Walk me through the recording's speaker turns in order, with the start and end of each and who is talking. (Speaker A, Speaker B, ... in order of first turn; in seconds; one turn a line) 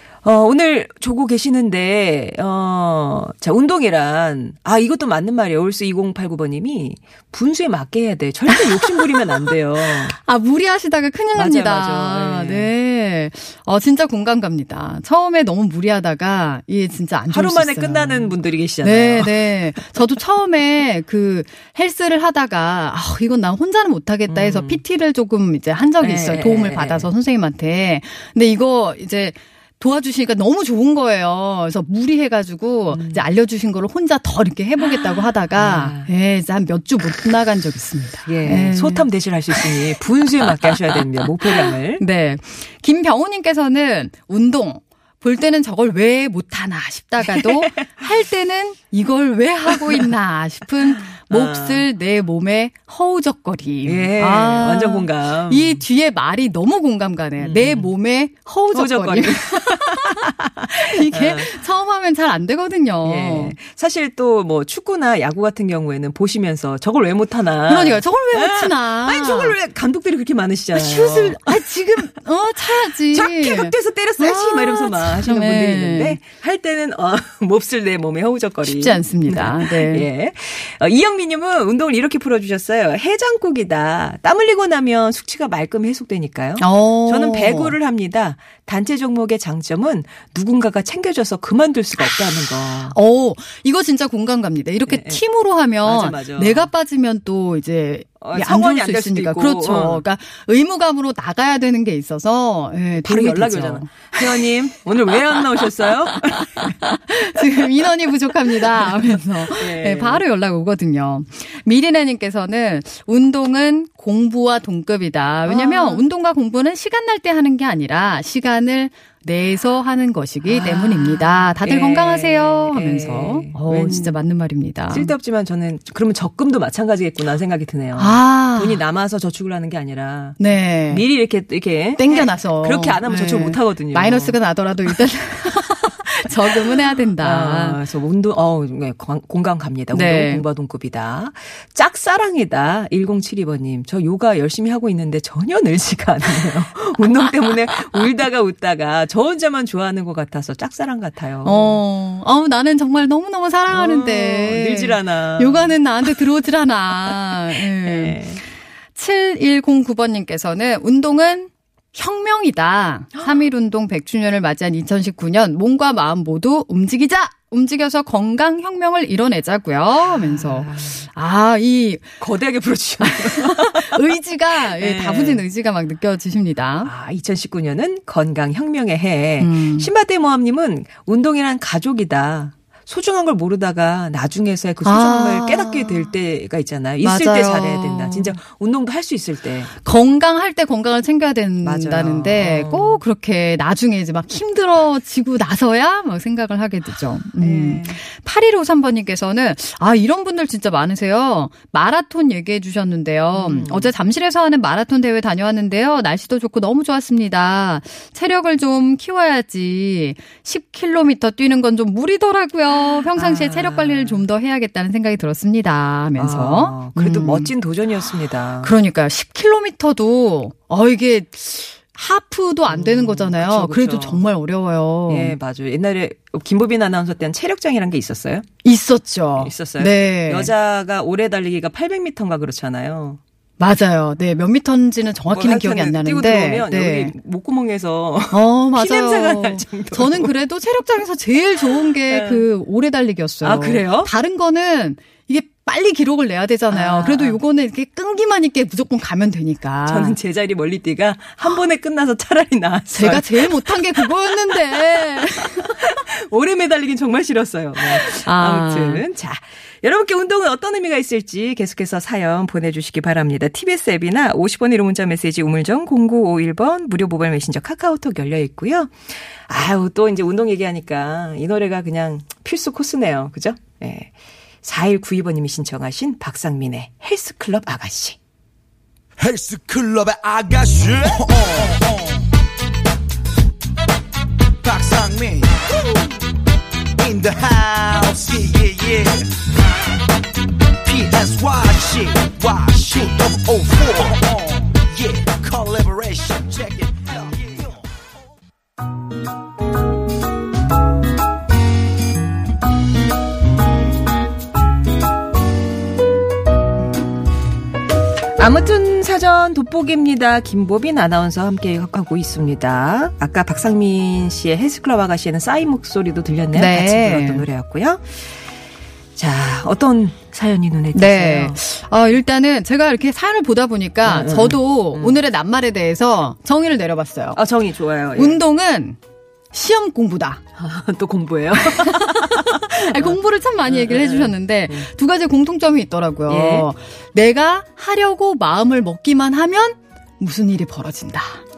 Speaker A: 0.2-10.2
Speaker B: 9.8-39.8
Speaker A: 11.3-12.7
Speaker A: 17.3-19.5
Speaker A: 24.3-24.8
Speaker A: 26.0-27.1
Speaker A: 32.9-33.2
Speaker A: 34.8-36.1
Speaker A: 38.2-42.0
Speaker B: 40.5-63.5
Speaker A: 47.3-47.5
Speaker A: 51.2-51.9
Speaker A: 53.8-55.8
Speaker A: 57.4-57.9
Speaker A: 58.7-61.6
Speaker A: 63.0-71.8
Speaker B: 67.7-69.6
Speaker B: 70.7-76.2
Speaker A: 72.6-93.0
Speaker B: 78.6-80.1
Speaker B: 86.6-87.8
Speaker B: 92.9-104.4
Speaker A: 94.9-95.2
Speaker A: 95.8-96.7
Speaker A: 98.2-100.0
Speaker A: 103.0-106.7
Speaker B: 106.8-125.1
Speaker A: 108.8-110.2
Speaker A: 115.5-116.0
Speaker A: 120.4-124.2
Speaker A: 124.9-134.3
Speaker B: 128.0-128.8
Speaker B: 130.4-131.1
Speaker B: 132.0-137.8
Speaker A: 137.2-151.8
Speaker B: 139.9-140.4
Speaker B: 151.4-158.4
Speaker A: 153.7-156.1
Speaker A: 157.0-158.4
Speaker B: 158.9-172.1
Speaker A: 163.2-163.4
Speaker A: 170.0-171.0
Speaker A: 172.2-175.4
Speaker B: 173.0-176.9
Speaker A: 176.8-189.7
Speaker B: 179.4-179.9
Speaker B: 184.8-186.1
Speaker B: 187.0-188.4
Speaker B: 189.8-217.5
Speaker A: 191.6-193.0
Speaker A: 197.4-198.0
Speaker A: 203.3-203.9
Speaker A: 212.7-214.2
Speaker A: 216.2-218.7
Speaker B: 218.6-225.3
Speaker A: 222.7-224.2
Speaker A: 225.1-228.4
Speaker B: 228.6-230.5
Speaker A: 229.3-233.2
Speaker B: 233.6-237.1
Speaker A: 235.3-240.3
Speaker B: 238.3-250.2
Speaker A: 241.6-242.4
Speaker A: 243.4-244.1
Speaker A: 246.7-247.4
Speaker A: 249.9-268.9
Speaker B: 252.9-255.9
Speaker B: 257.8-259.0
Speaker A: 269.5-274.1
Speaker A: 274.6-278.1
Speaker C: 279.2-282.1
Speaker C: 284.6-285.6
Speaker C: 287.0-289.3
Speaker C: 290.8-297.8
Speaker A: 308.4-318.2
Speaker B: 316.5-317.5
Speaker A: 319.2-321.6
Speaker B: 320.9-327.4
Speaker A: 324.0-325.2
Speaker A: 327.3-328.4
Speaker B: 328.1-329.0
Speaker B: 329.5-330.4
Speaker A: 330.6-334.9
Speaker B: 331.5-341.4
Speaker A: 336.3-336.7